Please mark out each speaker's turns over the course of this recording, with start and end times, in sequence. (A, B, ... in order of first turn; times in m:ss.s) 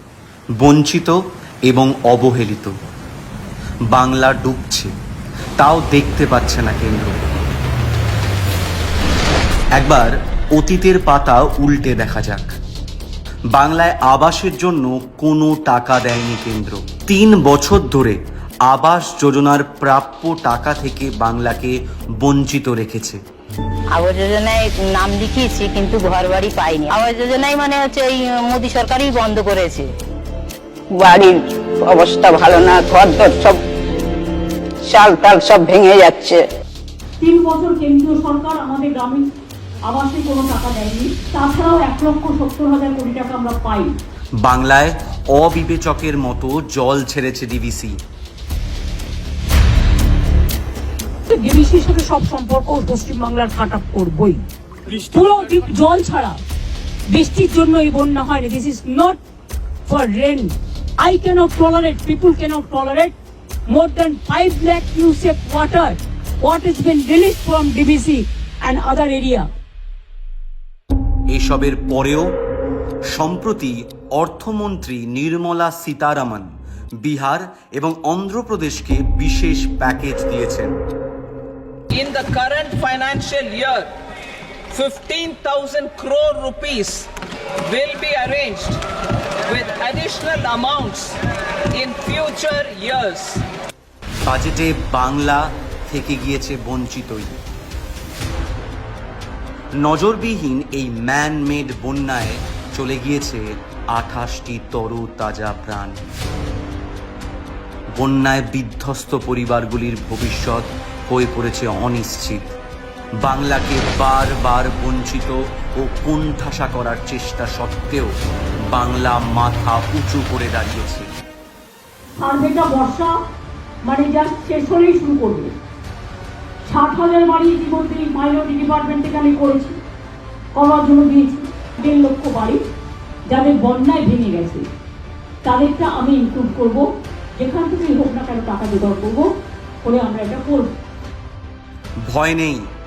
0:00.6-0:02.7 A
0:03.9-0:04.9 A
0:05.6-0:07.2 A
0:09.8-0:12.6 A
0:13.5-0:23.2 A
0:23.9-0:29.9 B
0:30.9-0:33.6 C
0:34.8-0:36.4 C
0:37.2-0:39.3 D
0:39.9-0:44.0 D
0:44.4-0:48.0 A
0:51.3-0:56.4 D
0:57.1-0:59.2 D
0:59.9-1:03.2 D
1:03.7-1:09.5 D
1:11.3-1:12.3 A
1:13.1-1:16.5 A
1:17.0-1:20.8 A
1:21.9-1:23.9 E
1:24.7-1:27.1 E
1:27.6-1:28.8 E
1:29.5-1:31.2 E
1:31.7-1:33.4 E
1:34.2-1:37.3 A
1:39.8-1:46.0 A
1:48.0-1:52.4 A
1:53.2-1:58.1 A
1:58.7-2:01.1 A
2:02.2-2:03.1 D
2:03.9-2:05.5 D
2:06.7-2:09.8 D
2:10.6-2:12.6 D
2:13.3-2:14.6 D
2:15.4-2:16.9 D
2:17.4-2:19.3 D
2:19.8-2:20.7 D
2:22.1-2:22.7 A